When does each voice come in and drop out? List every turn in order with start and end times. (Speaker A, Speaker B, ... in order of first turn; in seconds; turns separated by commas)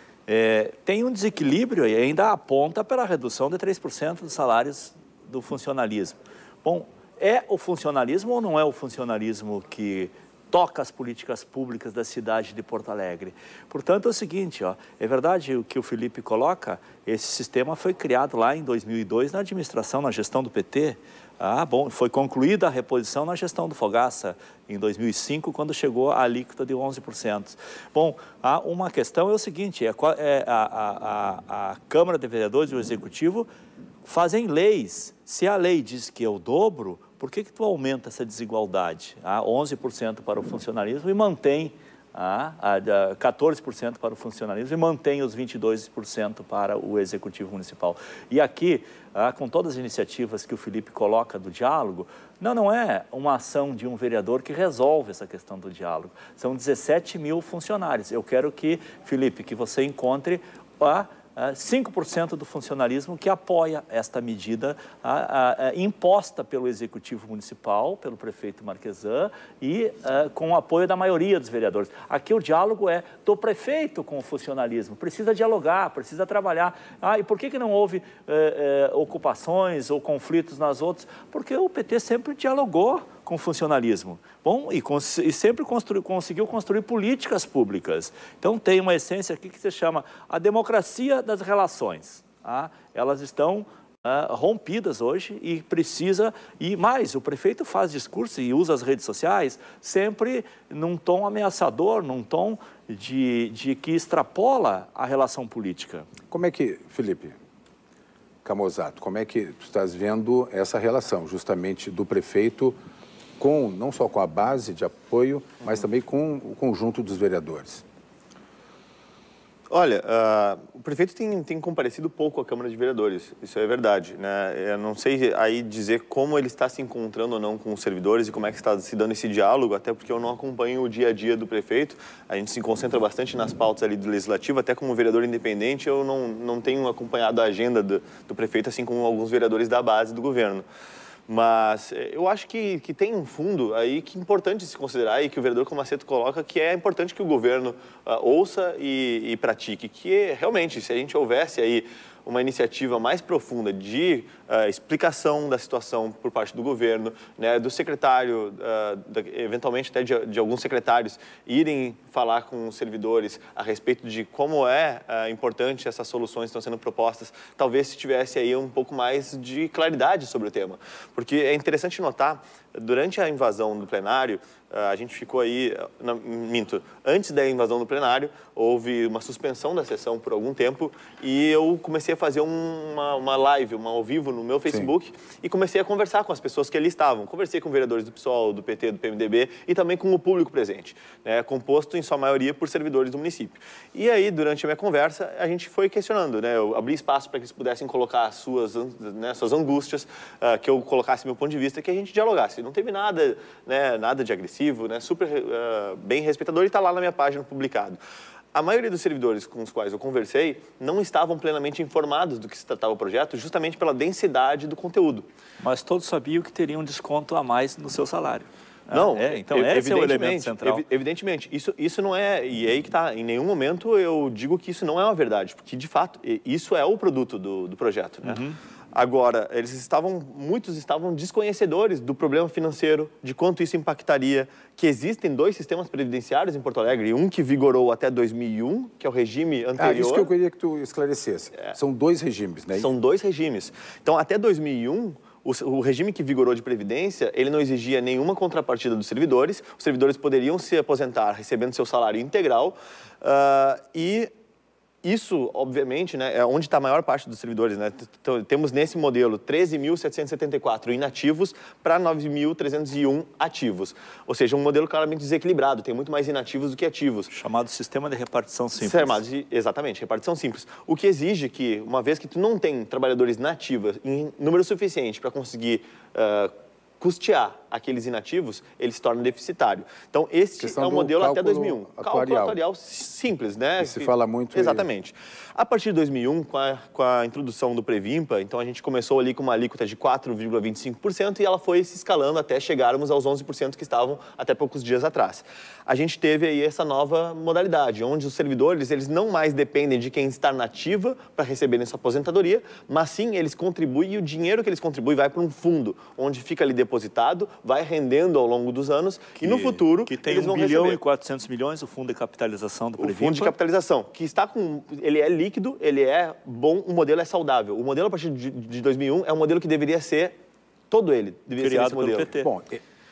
Speaker A: 0.3-33.5, Speaker A: 34.0-106.1, Speaker B: 106.3-107.3, Speaker B: 108.5-112.8, Speaker B: 113.4-117.8, Speaker C: 119.7-140.7, Speaker C: 141.3-208.0, Speaker C: 208.5-215.3, Speaker A: 215.6-220.8, Speaker C: 218.9-228.4, Speaker A: 228.2-228.6, Speaker C: 228.9-240.3, Speaker B: 239.8-242.9, Speaker C: 242.8-254.3, Speaker C: 255.0-267.3, Speaker A: 267.3-269.2, Speaker C: 268.8-311.0, Speaker B: 280.6-282.6, Speaker B: 283.8-284.9, Speaker A: 309.4-313.5, Speaker C: 313.0-320.4, Speaker C: 320.9-322.3, Speaker A: 321.6-322.5, Speaker B: 322.4-322.8